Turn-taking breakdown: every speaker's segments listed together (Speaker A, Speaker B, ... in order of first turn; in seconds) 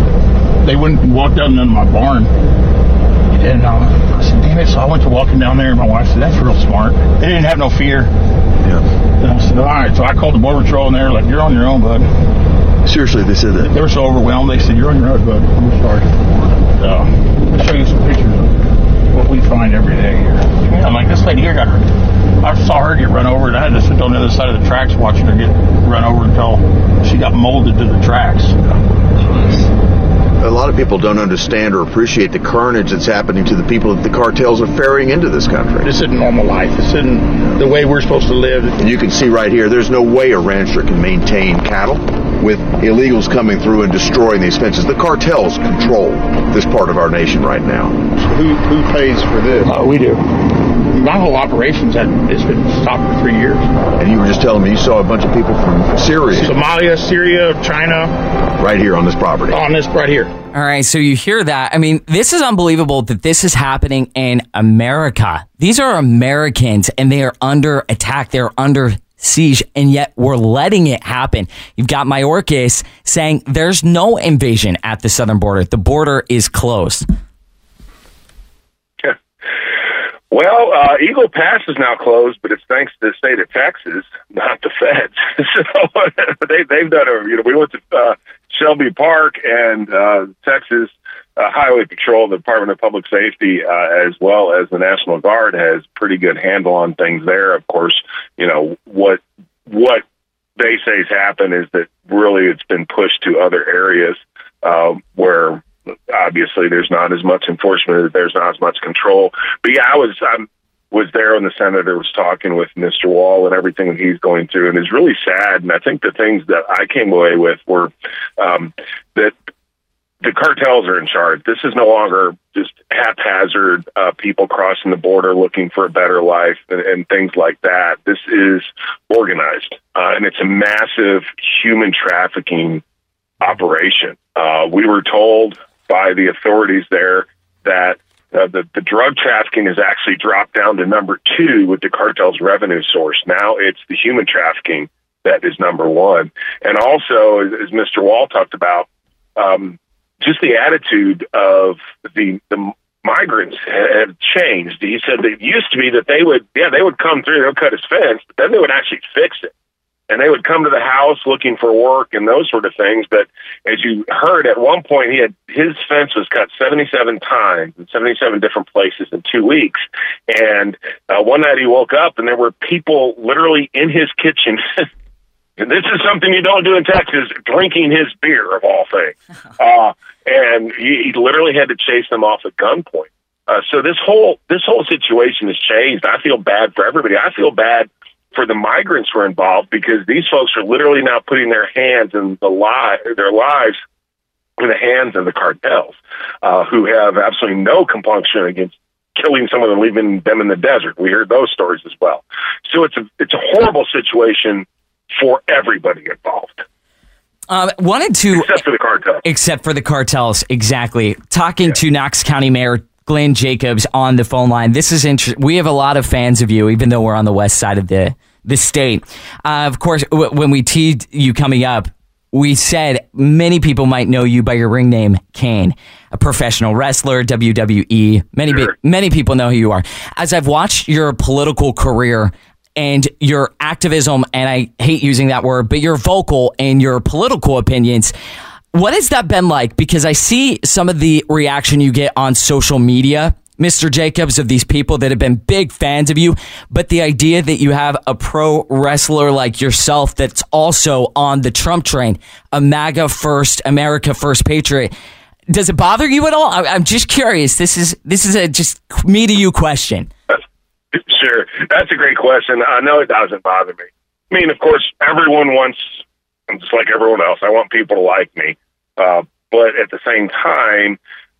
Speaker A: 0.6-2.3, 3.3-8.1, 9.2-12.1, 13.6-18.6, 19.1-28.6, 35.8-38.8, 48.2-53.7, 56.3-58.1, 59.5-60.3
Speaker B: 12.8-13.7, 30.4-35.9, 38.8-48.0, 54.0-56.5, 58.6-59.6
Speaker C: 60.5-77.1, 207.5-208.5, 209.2-238.1, 238.7-254.9, 255.5-260.1
Speaker D: 80.3-100.0, 100.6-119.3, 120.2-132.8, 133.4-159.5, 160.1-174.8, 175.6-193.8, 194.6-206.6, 208.3-209.2, 260.9-265.9, 266.5-271.0